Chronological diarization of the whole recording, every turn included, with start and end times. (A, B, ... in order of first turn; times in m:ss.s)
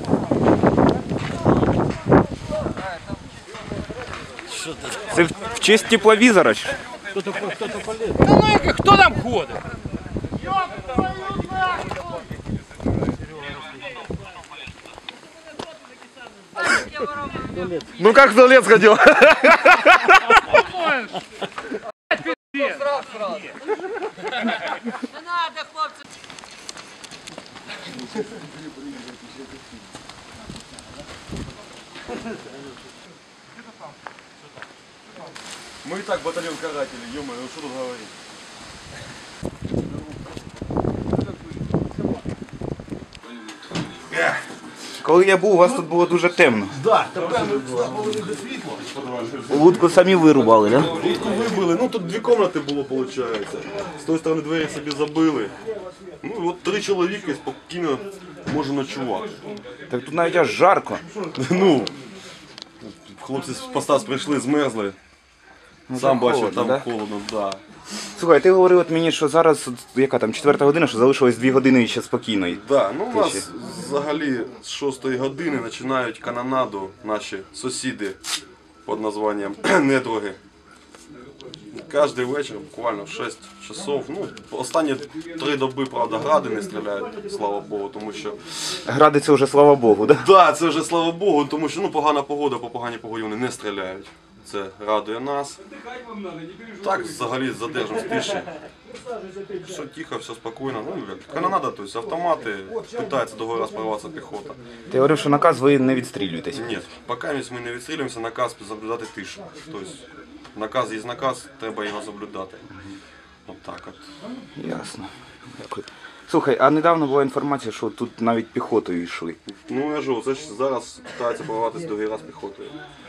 0:04.9-0:06.8 A
0:08.1-0:09.6 B
0:18.0-0:19.4 C
0:20.8-0:21.1 B
0:22.2-0:22.9 B
0:35.8-0:38.1 C
0:44.1-0:44.4 C
0:45.0-0:46.8 A
0:46.8-0:49.5 C
0:49.5-0:51.0 A
0:50.9-0:55.6 C
0:56.2-0:59.3 C
0:59.9-1:01.0 A
1:01.3-1:01.9 C
1:02.8-1:05.0 C
1:05.9-1:06.9 A
1:05.9-1:07.6 C
1:08.2-1:13.4 A
1:12.5-1:18.2 C
1:18.8-1:20.4 C
1:21.7-1:28.4 C
1:28.8-1:30.2 A
1:30.2-1:35.6 C
1:36.8-1:38.5 C
1:39.6-1:44.6 C
1:44.9-1:46.8 A
1:46.5-1:52.7 C
1:53.5-1:54.0 C
1:54.6-1:59.4 A
1:59.5-2:02.8 C